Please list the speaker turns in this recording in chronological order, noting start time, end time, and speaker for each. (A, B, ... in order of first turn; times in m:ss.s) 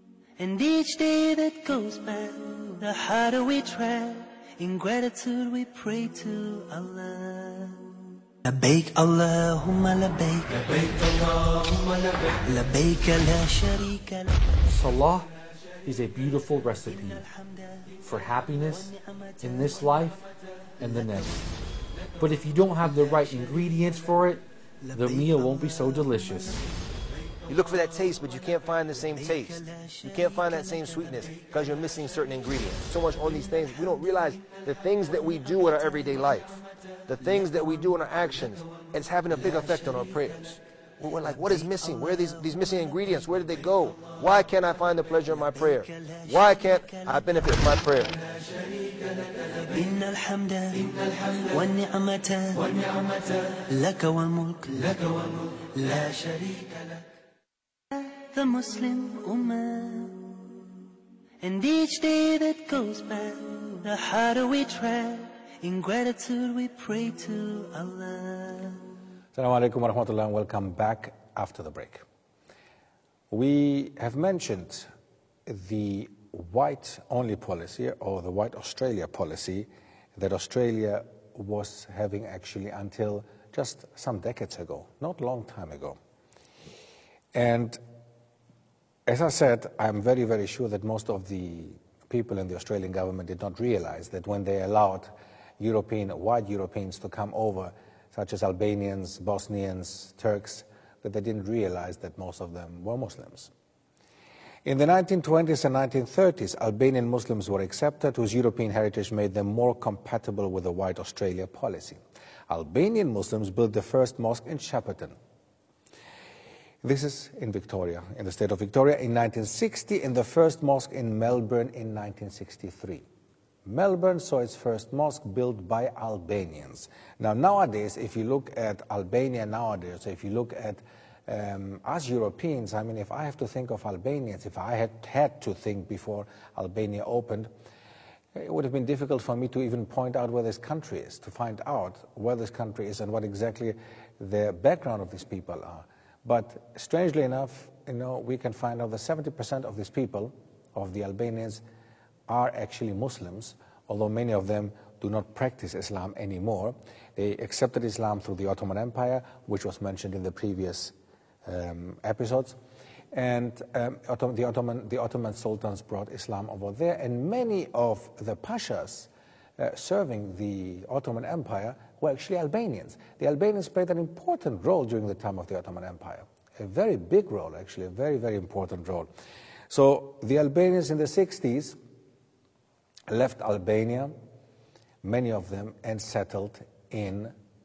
0:00.4-0:07.9 A
0:08.4-0:14.7 A
0:14.7-0:15.3 B
0:15.8-0:17.2 B
0:16.8-0:18.0 A
0:18.0-0:20.2 B
0:18.5-0:20.2 A
0:20.8-0:21.4 B
0:20.8-0:21.4 A
0:22.2-0:24.4 B
0:24.8-0:26.6 A
0:24.9-0:26.6 B
0:27.5-0:48.1 C
0:29.4-0:31.0 A
0:45.6-0:47.0 A
0:49.6-0:57.0 A
0:57.9-1:00.5 A
1:01.4-1:08.8 A
1:09.3-1:12.0 D
1:13.3-1:14.9 D
1:15.4-1:26.0 D
1:27.3-1:27.8 D
1:29.0-1:43.5 D
1:44.6-1:55.2 D
1:56.8-2:03.0 D
2:03.6-2:17.5 D
2:18.3-2:31.6 D
2:32.3-2:42.6 D
2:43.1-2:59.1 D
2:59.7-3:01.8 D
3:03.1-3:04.1 D
3:05.0-3:07.3 D